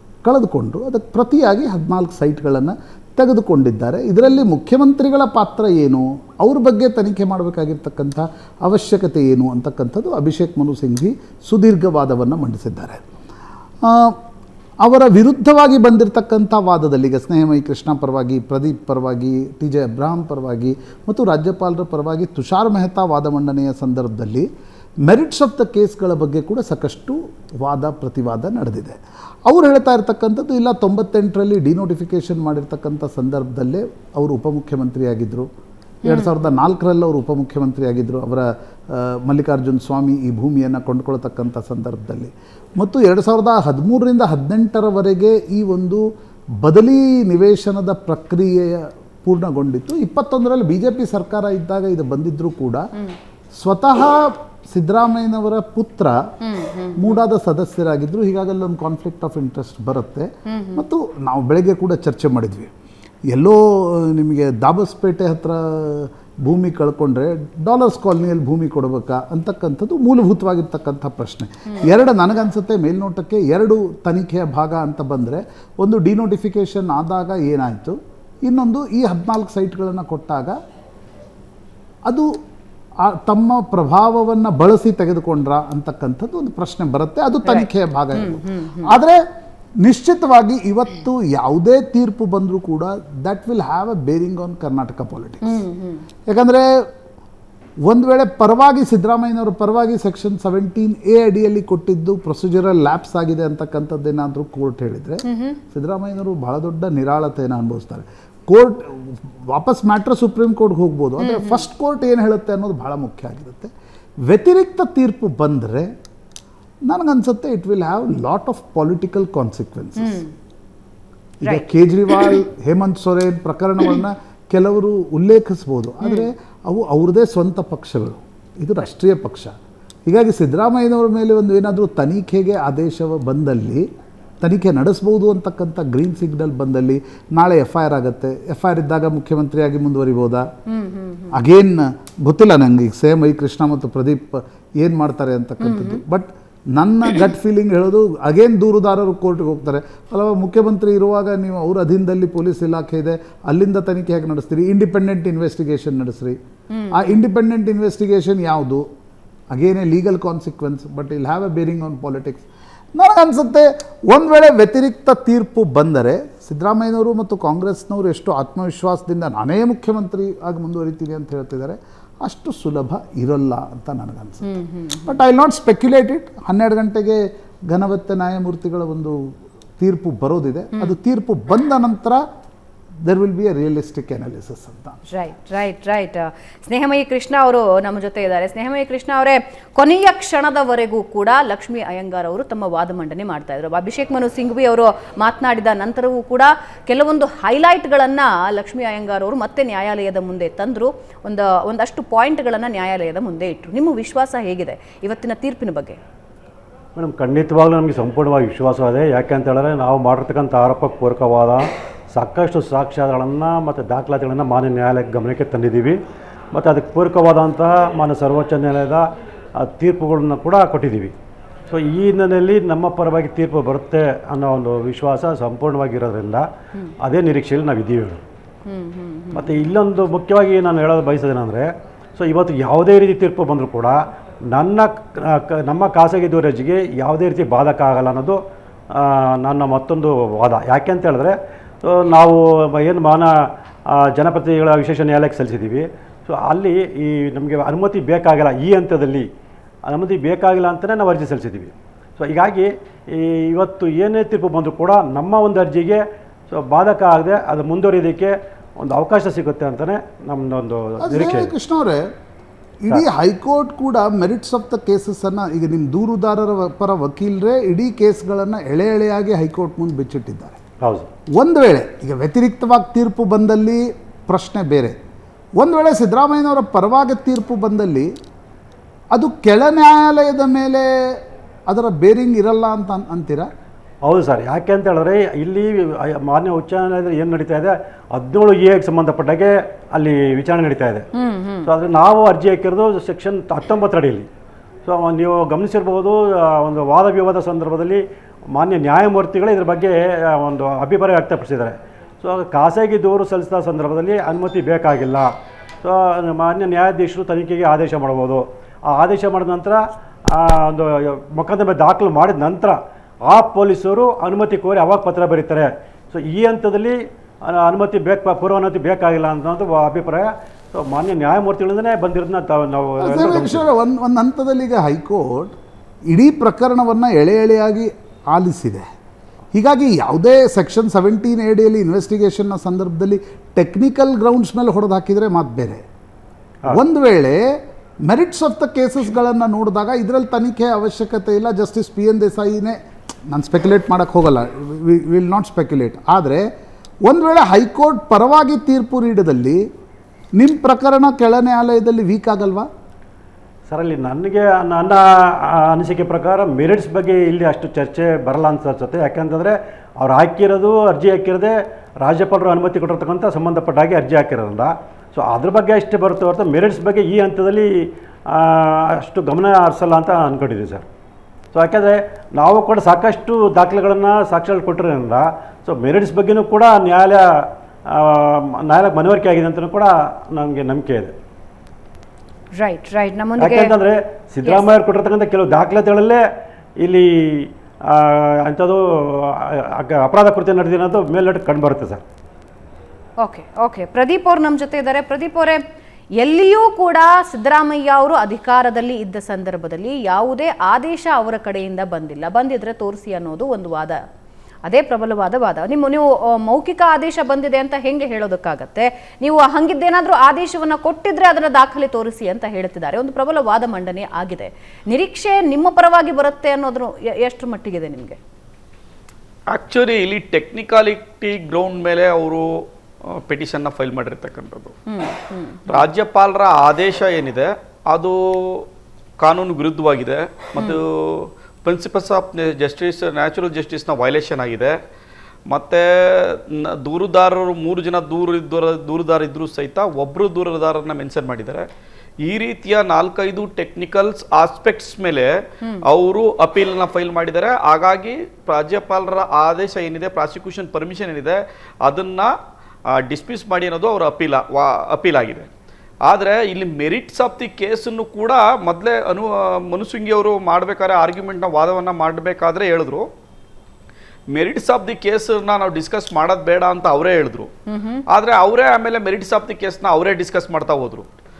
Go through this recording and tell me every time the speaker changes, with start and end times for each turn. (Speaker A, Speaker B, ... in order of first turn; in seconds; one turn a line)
Speaker A: 0.2-13.0
Speaker A: 13.8-14.2
Speaker A: 14.8-24.5
Speaker A: 25.1-35.5
Speaker A: 36.0-46.0
Speaker B: 36.0-36.3
Speaker A: 46.6-52.8
Speaker A: 53.6-56.2
Speaker B: 56.4-57.1
Speaker A: 57.0-62.7
Speaker B: 60.5-60.8
Speaker A: 63.3-80.5
Speaker A: 83.0-89.2
Speaker B: 87.4-88.9
Speaker A: 89.8-95.6
Speaker B: 95.4-96.0
Speaker A: 96.3-96.7
Speaker A: 97.9-113.7
Speaker B: 105.2-105.6
Speaker B: 111.2-111.6
Speaker A: 114.3-115.9
Speaker A: 116.9-120.2
Speaker B: 120.0-120.3
Speaker A: 121.4-129.5
Speaker B: 121.4-122.4
Speaker A: 130.1-133.8
Speaker A: 134.4-140.4
Speaker B: 140.7-141.3
Speaker A: 141.3-156.4
Speaker B: 145.6-146.0
Speaker B: 156.7-157.1
Speaker A: 156.9-158.8
Speaker A: 159.5-162.4
Speaker A: 162.9-174.5
Speaker B: 174.4-175.2
Speaker A: 175.1-179.2
Speaker A: 179.8-182.2
Speaker A: 183.1-185.0
Speaker B: 185.1-206.0
Speaker C: 206.9-216.0
Speaker C: 216.5-219.0
Speaker C: 219.6-221.1
Speaker C: 221.7-226.4
Speaker C: 227.0-228.2
Speaker B: 228.6-229.7
Speaker C: 229.3-233.9
Speaker C: 234.5-238.4
Speaker C: 239.0-243.3
Speaker C: 243.9-249.2
Speaker C: 249.9-261.5
Speaker A: 261.0-262.1
Speaker A: 262.8-270.6
Speaker C: 270.8-271.1
Speaker A: 271.4-275.0
Speaker A: 275.6-278.1
Speaker A: 279.1-281.2
Speaker A: 281.7-283.5
Speaker C: 284.1-291.0
Speaker B: 291.1-291.7
Speaker C: 291.6-294.3
Speaker C: 294.8-298.0
Speaker C: 298.5-305.3
Speaker C: 305.8-323.7
Speaker A: 323.0-325.6
Speaker A: 326.1-328.9
Speaker A: 329.5-335.8
Speaker A: 336.7-337.4
Speaker A: 338.1-342.8
Speaker A: 343.3-346.5
Speaker A: 347.1-349.6
Speaker A: 350.4-352.7
Speaker C: 353.7-367.7
Speaker C: 368.3-370.8
Speaker C: 371.5-377.2
Speaker C: 377.9-381.1
Speaker B: 382.6-383.7
Speaker C: 383.4-386.2
Speaker C: 386.8-388.8
Speaker C: 389.4-392.0
Speaker B: 393.2-395.6
Speaker B: 396.2-404.0
Speaker B: 404.6-418.2
Speaker D: 419.5-424.7
Speaker B: 424.9-425.8
Speaker D: 425.7-428.7
Speaker D: 429.2-434.8
Speaker D: 435.5-441.7
Speaker D: 442.2-452.3
Speaker D: 452.9-455.5
Speaker D: 456.1-463.1
Speaker D: 464.3-467.5
Speaker B: 467.7-468.0
Speaker D: 468.1-471.1